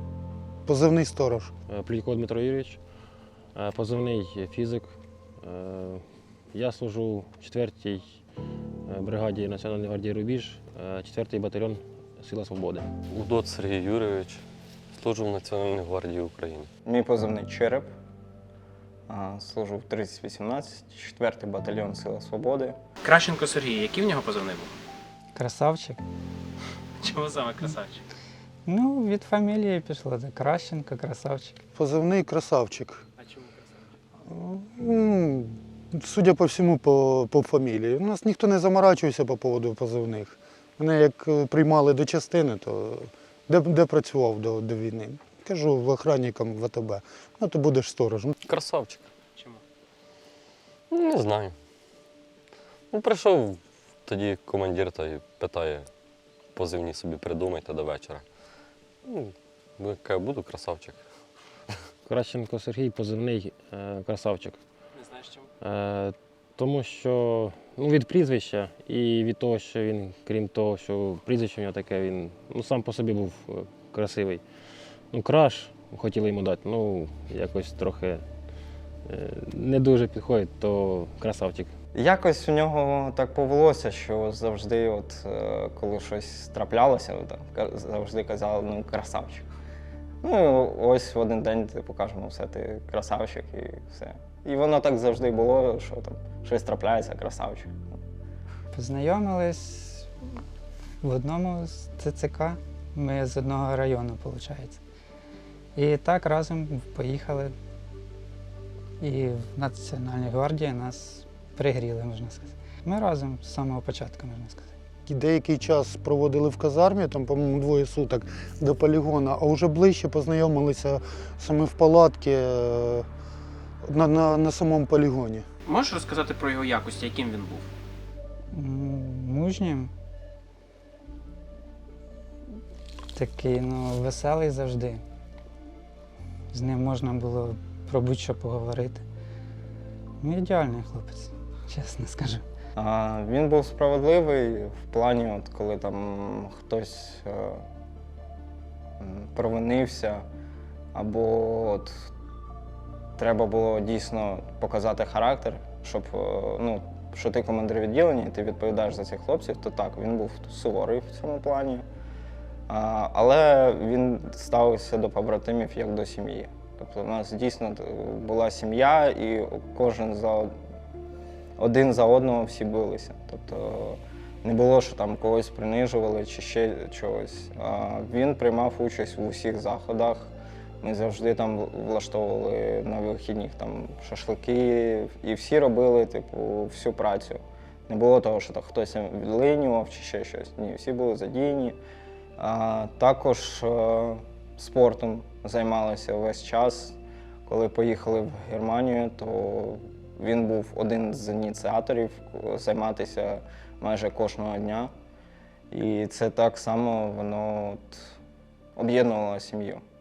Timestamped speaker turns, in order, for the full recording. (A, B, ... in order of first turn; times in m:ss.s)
0:00.6-0:01.5 A
0:01.7-0:02.8 B
0:03.5-0:08.2 B
0:08.9-0:12.9 B
0:13.1-0:14.4 C
0:14.9-0:16.7 C
0:16.8-0:17.9 D
0:19.1-0:22.8 D
0:23.0-0:24.7 E
0:25.3-0:26.0 F
0:27.0-0:28.0 E
0:28.6-0:31.6 F
0:31.8-0:33.0 A
0:33.2-0:33.8 E
0:34.3-0:48.4 A
0:48.4-0:49.1 C
0:49.4-0:49.6 E
0:50.9-0:51.6 C
0:52.9-0:55.9 C
0:56.5-0:58.2 C
0:59.0-1:01.0 C
1:02.0-1:04.6 B
1:04.9-1:05.5 E
1:05.6-1:14.4 B
1:15.1-1:18.2 B
1:19.1-1:21.7 B
1:21.9-1:29.5 D
1:30.2-1:37.8 D
1:38.7-1:40.1 F
1:41.0-1:44.8 F
1:45.7-1:47.5 F
1:49.0-1:54.7 F
1:55.0-2:03.0 A
2:03.8-2:05.4 A
2:05.6-2:07.7 E
2:08.5-2:09.9 F
2:13.1-2:15.0 F
2:16.5-2:19.0 F
2:20.2-2:22.4 F
2:22.8-2:27.6 D
2:29.0-2:30.2 D
2:30.9-2:32.0 D
2:33.2-2:41.8 D
2:42.7-2:50.5 D
2:51.6-3:00.3 D
3:00.8-3:11.8 D
3:12.4-3:24.9 D
3:25.7-3:28.0 D
3:28.8-3:29.8 D